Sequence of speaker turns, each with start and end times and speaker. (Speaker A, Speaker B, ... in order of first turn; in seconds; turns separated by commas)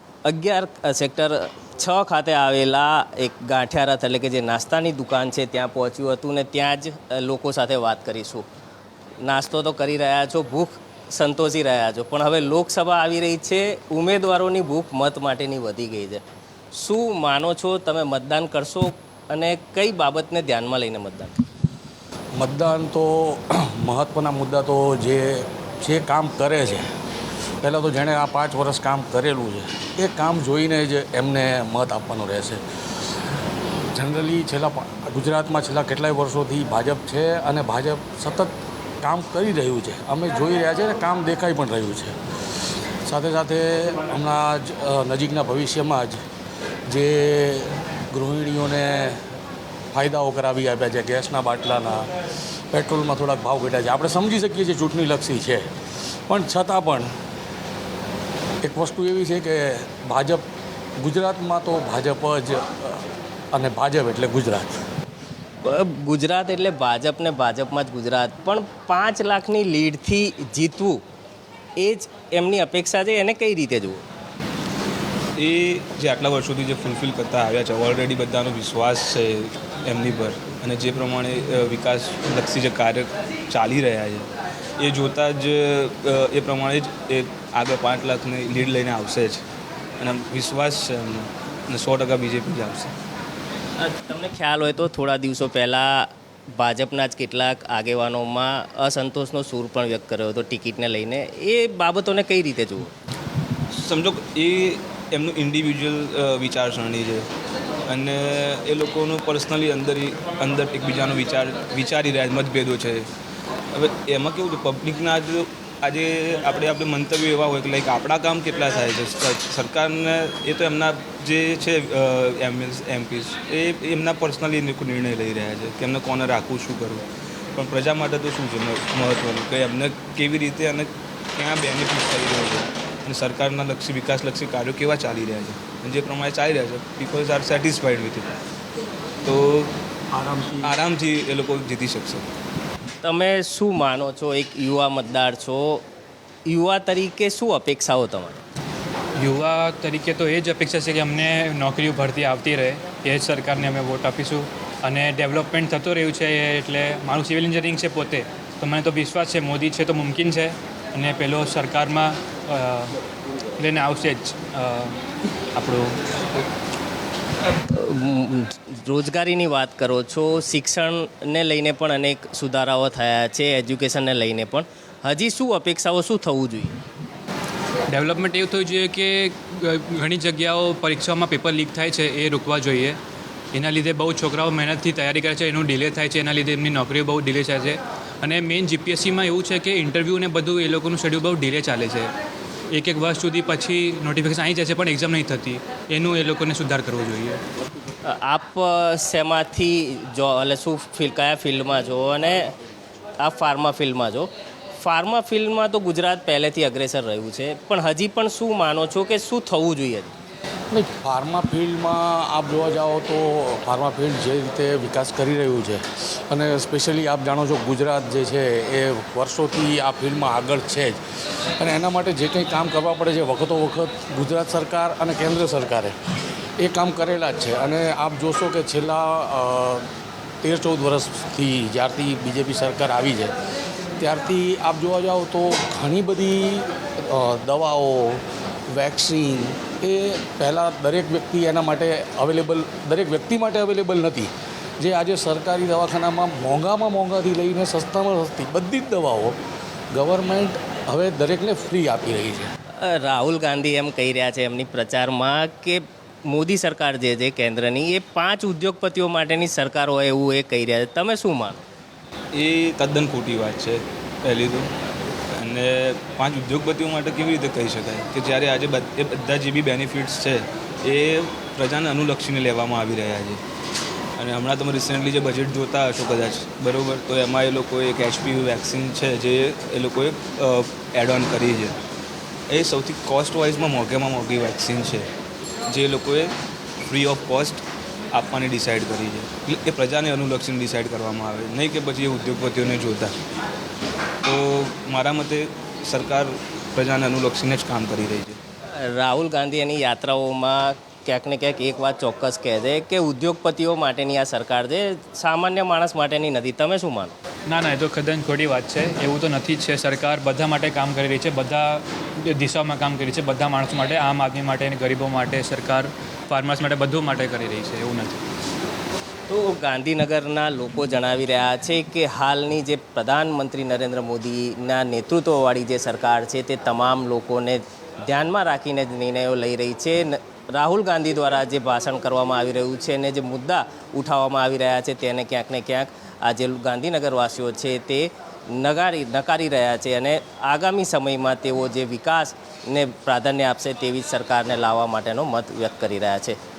Speaker A: 0.2-8.5, Speaker A: 9.2-21.4, Speaker B: 22.4-26.8, Speaker B: 27.6-32.6, Speaker B: 33.9-42.1, Speaker B: 43.1-46.2, Speaker B: 46.9-49.2, Speaker B: 49.9-52.1, Speaker B: 52.7-55.7, Speaker B: 56.3-57.1, Speaker B: 58.6-60.4, Speaker B: 61.0-64.8, Speaker A: 65.6-71.0, Speaker A: 71.8-74.0, Speaker C: 75.4-89.4, Speaker C: 90.0-92.9, Speaker A: 93.8-102.9, Speaker C: 103.7-107.3, Speaker C: 107.9-113.1, Speaker C: 113.7-138.3, Speaker C: 139.2-139.7, Speaker B: 140.1-140.8, Speaker C: 140.6-142.3, Speaker A: 143.0-145.8, Speaker A: 146.4-148.4, Speaker D: 149.2-162.9, Speaker D: 163.6-165.0, Speaker D: 165.5-166.0, Speaker A: 167.6-176.8, Speaker D: 177.9-183.0, Speaker D: 183.5-192.1, Speaker D: 192.7-197.4, Speaker A: 198.0-202.5, Speaker A: 203.2-210.1, Speaker B: 210.7-221.0, Speaker B: 221.6-225.9, Speaker B: 226.6-229.9, Speaker B: 230.4-233.3, Speaker B: 234.0-249.4, Speaker B: 249.9-252.5, Speaker A: 252.8-261.6, Speaker C: 262.3-264.7, Speaker C: 265.3-273.4, Speaker C: 274.2-281.8, Speaker C: 282.5-285.1, Speaker C: 285.7-286.3, Speaker C: 286.8-293.1, Speaker C: 294.2-298.4, Speaker A: 298.8-307.1, Speaker D: 307.5-318.2, Speaker A: 319.3-346.4